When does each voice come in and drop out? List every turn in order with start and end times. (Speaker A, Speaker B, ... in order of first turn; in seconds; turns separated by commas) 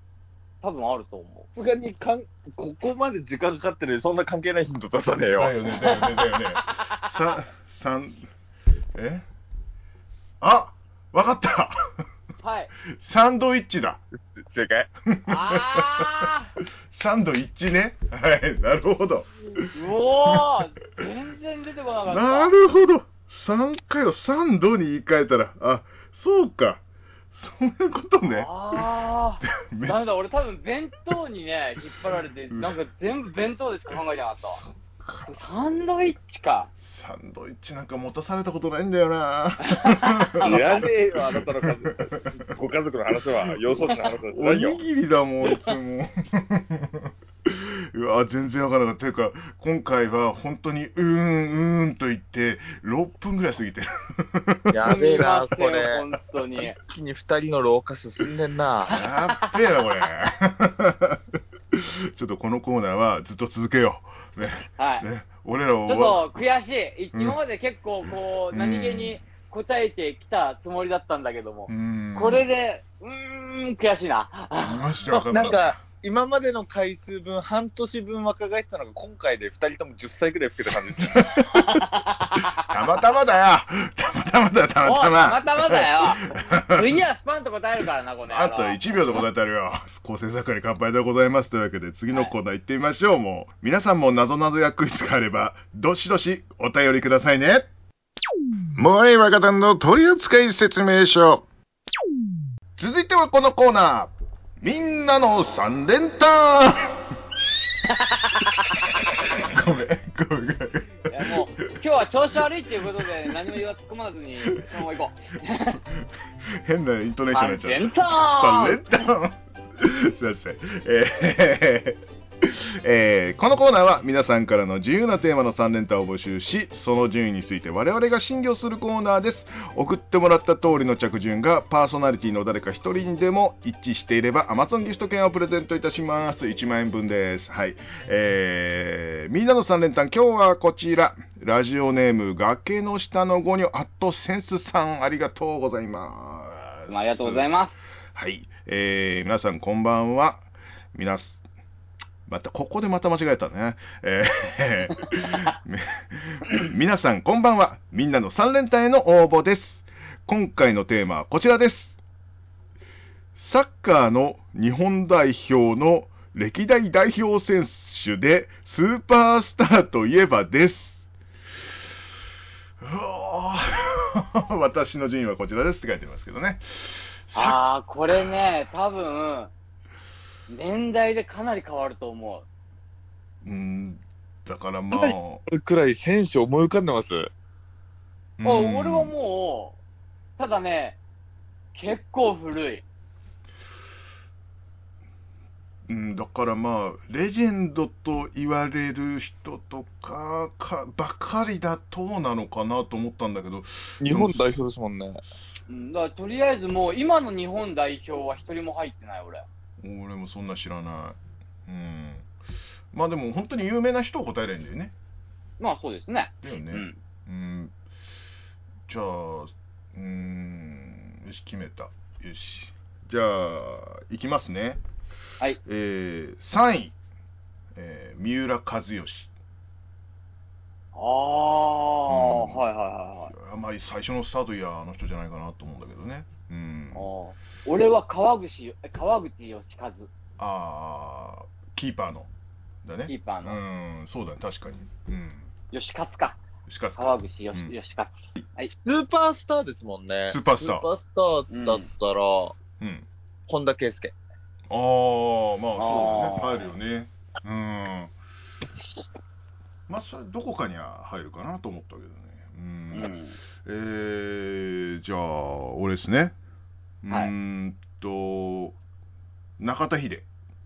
Speaker A: 0.6-1.5, Speaker B: 1.6-5.5, Speaker C: 5.3-8.3, Speaker A: 5.8-7.3, Speaker C: 8.9-9.3, Speaker C: 10.4-11.8, Speaker A: 12.4-12.7, Speaker C: 12.8-14.0, Speaker B: 14.4-14.9, Speaker C: 15.1-16.3, Speaker A: 15.3-16.5, Speaker C: 16.9-19.7, Speaker A: 19.7-22.5, Speaker C: 22.1-28.8, Speaker A: 28.2-34.6, Speaker C: 29.4-30.1, Speaker C: 32.5-32.8, Speaker C: 34.6-35.3, Speaker A: 35.2-36.7, Speaker C: 36.8-42.5, Speaker A: 39.7-40.9, Speaker B: 40.4-44.8, Speaker C: 43.5-54.8, Speaker B: 54.7-56.0, Speaker A: 54.9-56.8, Speaker B: 56.7-59.0, Speaker C: 58.9-66.4, Speaker A: 59.0-59.5, Speaker A: 64.8-65.1, Speaker A: 65.9-75.6, Speaker C: 68.1-69.2, Speaker C: 71.7-72.5, Speaker C: 74.6-75.8, Speaker B: 75.3-81.2, Speaker C: 81.0-81.8, Speaker A: 81.5-82.7, Speaker C: 82.6-87.0, Speaker A: 84.8-89.2, Speaker C: 88.2-97.7, Speaker D: 98.8-101.4, Speaker C: 102.8-107.1, Speaker A: 107.9-109.5, Speaker C: 109.1-111.4, Speaker A: 111.1-115.8, Speaker C: 112.9-113.3, Speaker C: 115.9-147.5, Speaker A: 117.3-118.8, Speaker A: 146.9-147.7, Speaker C: 148.1-151.4, Speaker C: 152.3-162.0, Speaker C: 163.3-171.0, Speaker C: 172.8-178.5, Speaker A: 177.3-179.5, Speaker A: 180.5-182.5, Speaker C: 183.4-185.4, Speaker B: 184.9-187.3, Speaker C: 188.4-189.1, Speaker A: 188.4-189.8, Speaker A: 190.4-191.0, Speaker A: 191.8-192.8, Speaker C: 195.9-204.5, Speaker B: 204.0-205.2, Speaker A: 205.7-209.5, Speaker C: 209.8-212.3, Speaker C: 212.9-214.9, Speaker A: 215.6-217.0, Speaker C: 216.4-217.8, Speaker C: 218.9-224.8, Speaker C: 225.6-226.9, Speaker C: 227.8-229.3, Speaker A: 230.9-233.3, Speaker C: 232.1-232.6, Speaker C: 233.3-237.1, Speaker A: 236.9-240.1, Speaker C: 240.4-242.3, Speaker C: 242.8-245.5, Speaker A: 243.1-243.6, Speaker A: 245.7-246.4, Speaker C: 246.7-247.7, Speaker A: 247.0-248.7, Speaker B: 248.7-252.6, Speaker C: 250.3-250.9, Speaker A: 251.5-251.9, Speaker C: 252.8-253.1, Speaker B: 253.5-254.1, Speaker C: 254.7-258.1, Speaker A: 255.8-256.7, Speaker C: 259.9-263.1, Speaker A: 262.9-263.4, Speaker C: 263.6-266.4, Speaker C: 267.0-268.8, Speaker C: 269.6-270.3